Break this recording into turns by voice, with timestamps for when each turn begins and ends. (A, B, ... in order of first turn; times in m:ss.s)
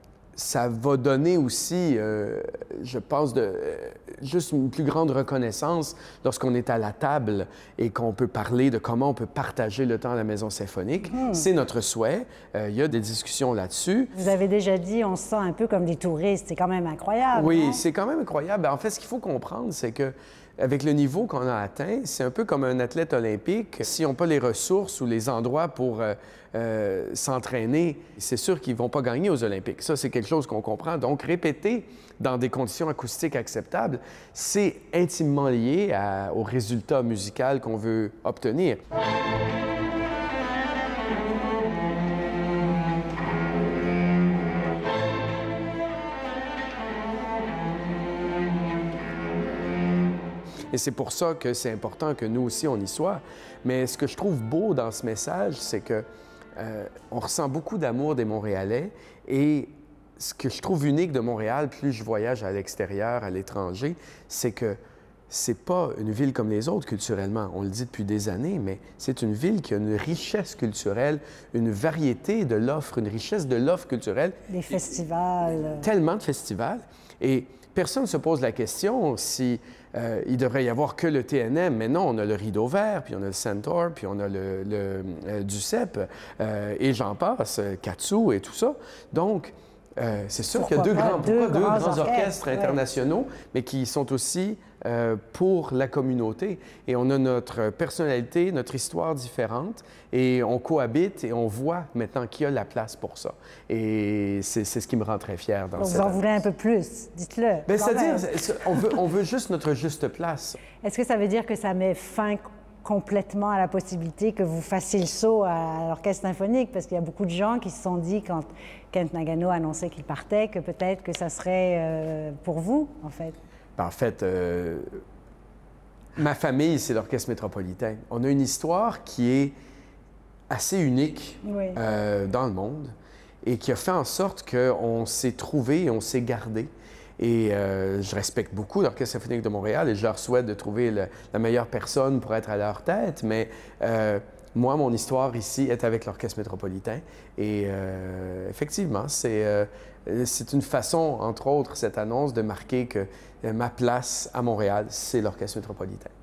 0:00.4-0:14.1 A
0:11.1-0:11.5 B
0:14.1-0:17.8 B
0:17.3-0:38.8 A
0:50.7-0:56.1 A
0:56.6-1:04.8 A
1:05.3-1:14.4 A
1:14.5-1:15.9 B
1:15.8-1:46.2 A
1:30.5-1:32.8 B
1:45.8-1:48.8 B
1:47.7-1:50.6 A
1:50.8-2:03.4 B
2:03.8-2:04.9 A
2:06.2-2:09.5 A
2:10.5-2:36.1 A
2:11.4-2:11.8 B